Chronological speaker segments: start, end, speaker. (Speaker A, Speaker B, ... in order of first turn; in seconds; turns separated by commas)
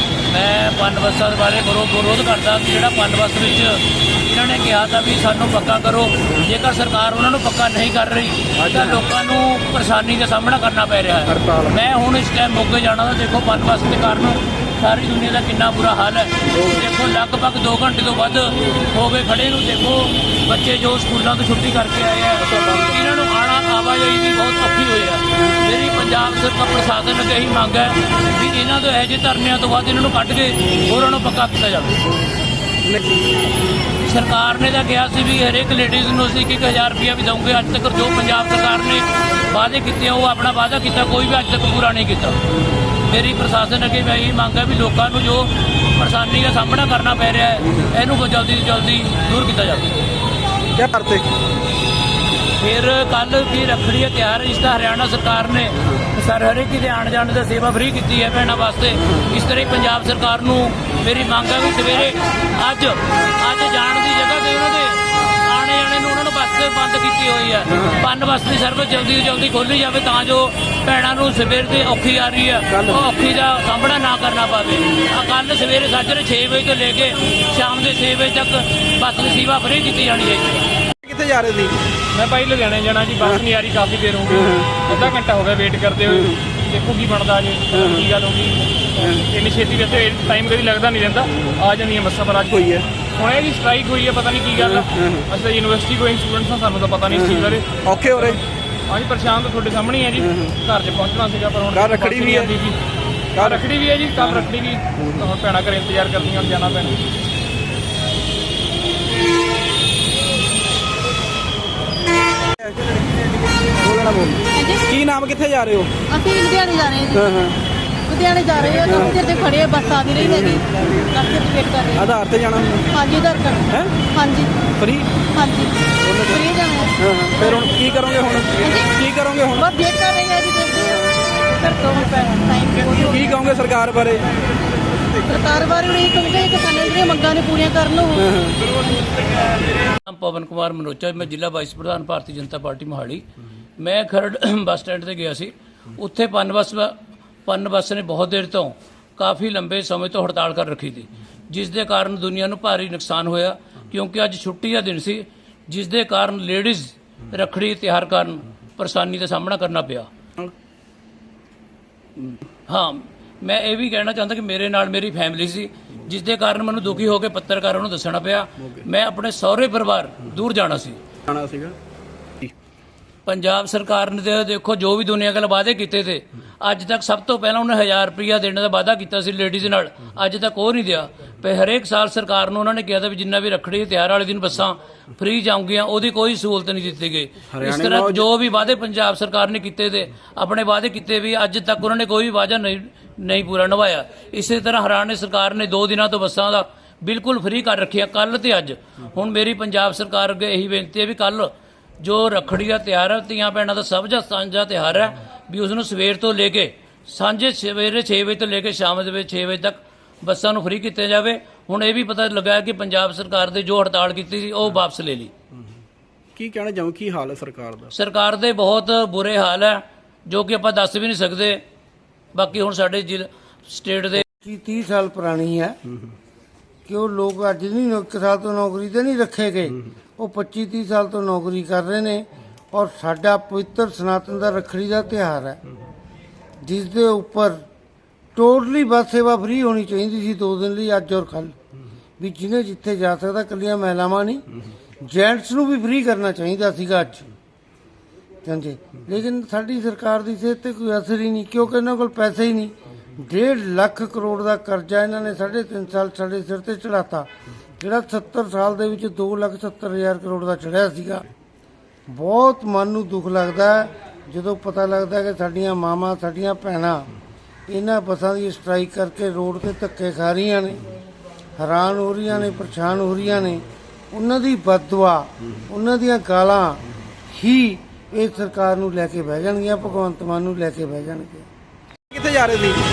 Speaker A: 0.3-32.0, Speaker B: 8.6-8.9, Speaker B: 11.3-11.7, Speaker B: 22.5-22.8, Speaker B: 32.9-33.2, Speaker A: 34.0-42.4, Speaker A: 42.9-49.9, Speaker B: 50.8-51.3, Speaker A: 52.6-80.7, Speaker B: 72.7-73.0, Speaker B: 80.9-81.7, Speaker C: 82.1-98.3, Speaker B: 94.8-95.2, Speaker B: 97.2-98.4, Speaker C: 98.9-102.8, Speaker B: 101.7-102.5, Speaker B: 103.3-103.6, Speaker C: 103.4-107.0, Speaker B: 104.2-104.4, Speaker B: 112.6-112.9, Speaker B: 113.7-116.0, Speaker D: 114.5-114.9, Speaker D: 116.1-117.2, Speaker B: 117.1-117.5, Speaker D: 118.0-122.0, Speaker B: 118.7-119.4, Speaker B: 120.2-120.7, Speaker B: 122.0-122.9, Speaker D: 122.9-124.6, Speaker B: 123.7-124.0, Speaker B: 124.7-125.2, Speaker D: 125.3-126.9, Speaker B: 126.0-126.4, Speaker B: 127.0-129.7, Speaker D: 128.6-128.9, Speaker D: 129.6-133.4, Speaker B: 132.8-134.3, Speaker D: 135.2-138.3, Speaker B: 138.2-138.6, Speaker A: 140.1-143.2, Speaker A: 143.8-146.9, Speaker A: 147.4-160.1, Speaker A: 162.2-171.0, Speaker B: 171.3-171.8, Speaker A: 173.2-215.3, Speaker B: 187.5-188.2, Speaker B: 216.3-217.9, Speaker A: 217.9-221.6, Speaker A: 222.3-224.2, Speaker E: 224.2-225.8, Speaker E: 226.9-235.6, Speaker E: 236.6-237.6, Speaker E: 238.3-241.5, Speaker E: 242.2-244.4, Speaker E: 245.0-247.3, Speaker E: 248.4-257.3, Speaker E: 257.8-261.3, Speaker E: 262.1-267.1, Speaker E: 267.7-270.9, Speaker E: 271.6-276.8, Speaker E: 277.3-281.4, Speaker B: 282.1-282.8